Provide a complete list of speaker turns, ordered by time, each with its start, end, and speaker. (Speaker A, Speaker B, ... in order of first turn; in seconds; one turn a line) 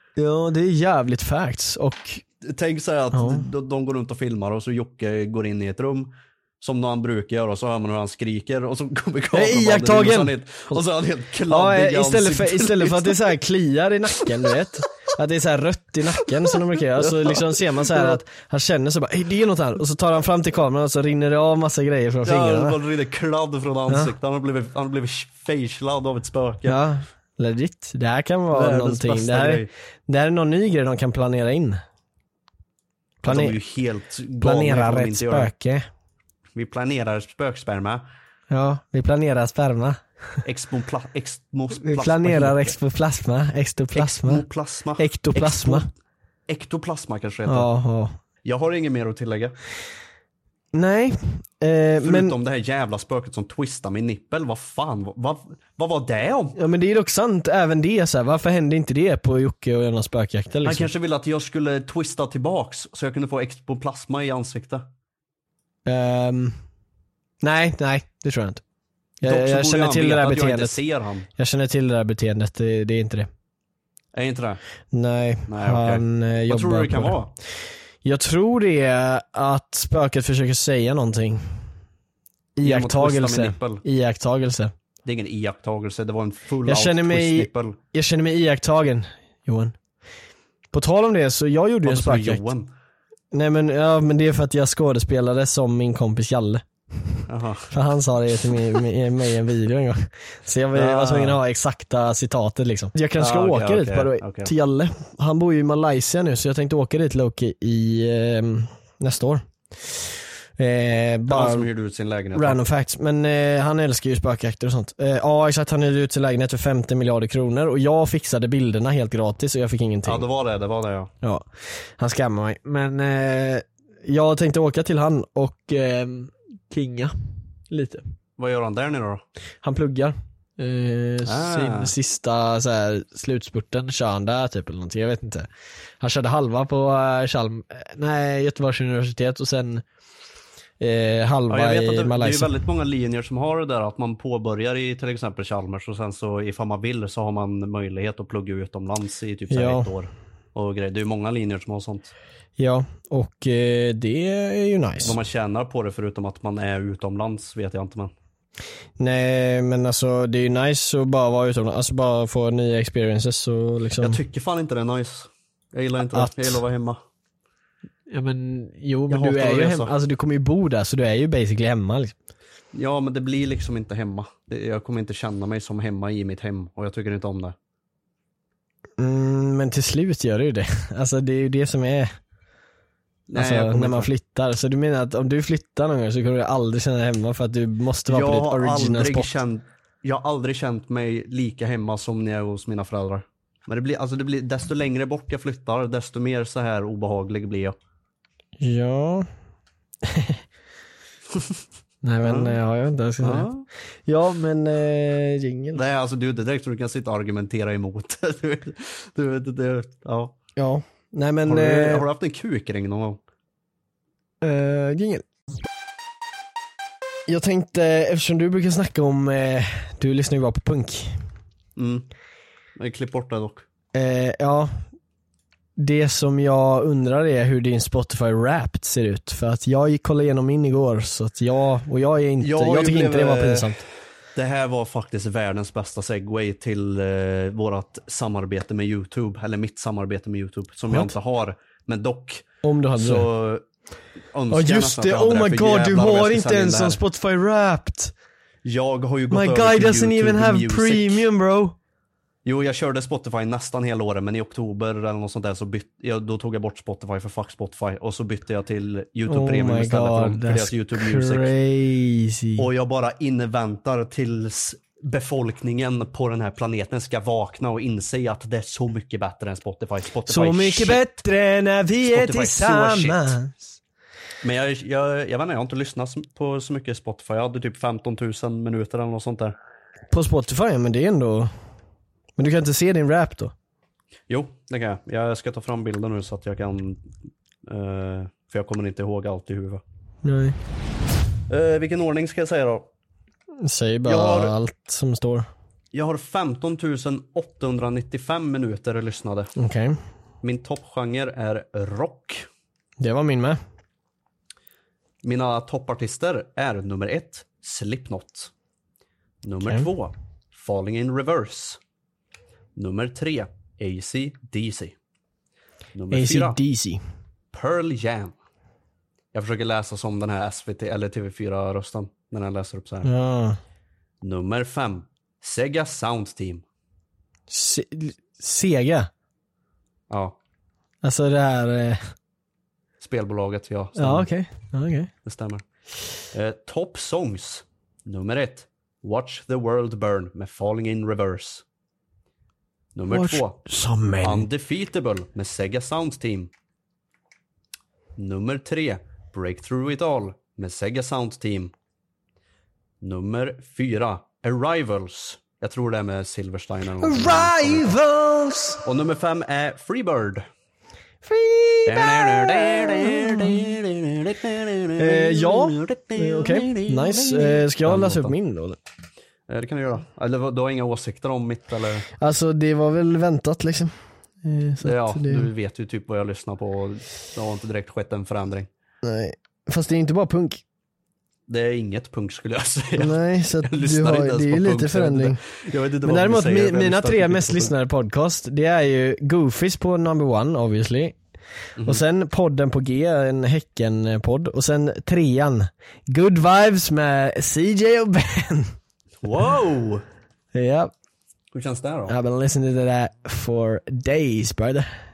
Speaker A: 0.2-2.2
Speaker B: 2.4-13.2
Speaker A: 3.1-3.5
Speaker A: 9.3-10.8
Speaker A: 11.5-22.8
Speaker B: 17.0-18.2
Speaker B: 22.2-26.8
Speaker A: 26.6-31.8
Speaker B: 28.5-29.7
Speaker A: 33.2-33.6
Speaker B: 33.2-35.5
Speaker A: 34.4-35.9
Speaker B: 36.5-38.0
Speaker A: 38.5-40.0
Speaker B: 40.5-42.8
Speaker A: 41.8-44.5
Speaker B: 44.0-45.9
Speaker A: 45.0-45.9
Speaker B: 46.5-47.7
Speaker A: 47.5-48.2
Speaker B: 48.4-49.5
Speaker A: 50.7-52.4
Speaker B: 52.0-56.6
Speaker A: 56.6-60.9
Speaker B: 60.6-64.9
Speaker A: 65.9-66.6
Speaker A: 67.4-68.6
Speaker A: 69.2-70.8
Speaker B: 69.2-71.3
Speaker A: 71.4-73.3
Speaker B: 74.1-74.6
Speaker A: 74.9-77.2
Speaker B: 75.5-77.3
Speaker A: 78.0-81.4
Speaker A: 82.6-84.7
Speaker B: 82.6-83.8
Speaker B: 85.0-87.8
Speaker A: 86.7-89.8
Speaker A: 90.7-92.4
Speaker B: 91.8-92.7
Speaker A: 93.3-111.7
Speaker B: 97.3-97.8
Speaker B: 100.7-101.4
Speaker B: 103.2-104.5
Speaker B: 111.3-112.6
Speaker A: 112.3-120.3
Speaker B: 120.0-121.1
Speaker A: 121.2-121.5
Speaker A: 122.0-127.1
Speaker A: 127.7-128.0
Speaker B: 128.4-129.2
Speaker A: 129.6-135.5
Speaker B: 131.3-131.9
Speaker A: 136.0-139.8
Speaker A: 140.8-142.5
Speaker B: 141.5-152.1
Speaker A: 149.5-149.9
Speaker A: 152.6-155.2
Speaker B: 155.0-158.1
Speaker A: 159.0-164.2
Speaker B: 164.0-167.0
Speaker A: 166.1-166.6
Speaker A: 168.1-172.1
Speaker B: 169.1-169.9
Speaker B: 172.7-177.6
Speaker A: 179.0-182.1
Speaker B: 183.3-184.1
Speaker A: 183.3-189.4
Speaker B: 188.1-197.8
Speaker A: 198.6-199.3
Speaker A: 200.0-200.4
Speaker A: 202.0-203.5
Speaker B: 202.2-202.6
Speaker B: 203.2-203.7
Speaker A: 204.1-205.8
Speaker B: 205.7-210.3
Speaker A: 210.6-212.1
Speaker B: 211.5-213.2
Speaker A: 214.4-215.2
Speaker A: 217.3-221.2
Speaker B: 221.8-222.1
Speaker B: 222.8-223.7
Speaker A: 223.9-224.8
Speaker A: 225.8-233.8
Speaker B: 232.4-233.8
Speaker B: 234.4-242.5
Speaker A: 242.6-243.3
Speaker B: 243.0-243.6
Speaker B: 244.3-247.0
Speaker A: 244.5-248.1
Speaker B: 248.7-251.3
Speaker A: 249.3-251.8
Speaker B: 252.4-261.5
Speaker A: 259.3-262.7
Speaker B: 262.6-271.0
Speaker A: 270.3-273.5
Speaker B: 272.1-273.4
Speaker B: 274.4-279.6
Speaker A: 280.1-281.5
Speaker A: 282.4-283.5
Speaker B: 284.3-287.1
Speaker B: 287.7-289.8
Speaker A: 290.2-290.6
Speaker B: 291.5-292.9
Speaker A: 293.6-295.5
Speaker B: 294.1-294.5
Speaker B: 295.9-299.5
Speaker A: 299.6-300.0
Speaker B: 300.4-302.5
Speaker A: 303.0-303.6
Speaker B: 305.2-308.5
Speaker B: 309.4-311.8
Speaker B: 312.8-314.9
Speaker B: 315.9-316.6
Speaker A: 316.1-317.0
Speaker B: 317.5-318.4
Speaker B: 319.3-323.1
Speaker A: 323.0-323.6
Speaker B: 324.2-326.6
Speaker A: 327.5-329.1
Speaker B: 330.1-330.4
Speaker A: 331.0-332.1
Speaker B: 333.0-334.3
Speaker A: 334.0-335.1
Speaker B: 335.2-335.6
Speaker B: 336.3-341.6
Speaker B: 342.9-343.6
Speaker A: 343.1-344.5
Speaker B: 344.2-346.5
Speaker B: 348.2-351.7
Speaker B: 353.0-358.0
Speaker A: 357.0-358.8
Speaker B: 358.8-360.4
Speaker A: 361.2-363.7
Speaker B: 361.9-368.3
Speaker A: 365.0-368.8
Speaker B: 369.5-372.1
Speaker A: 372.2-375.5
Speaker B: 374.8-378.7
Speaker A: 379.0-380.6
Speaker B: 381.5-387.7
Speaker A: 383.0-385.4
Speaker A: 386.0-391.2
Speaker B: 391.8-392.0
Speaker A: 391.8-398.7
Speaker B: 399.2-400.0
Speaker A: 400.5-400.9
Speaker B: 401.5-402.2
Speaker A: 402.1-404.9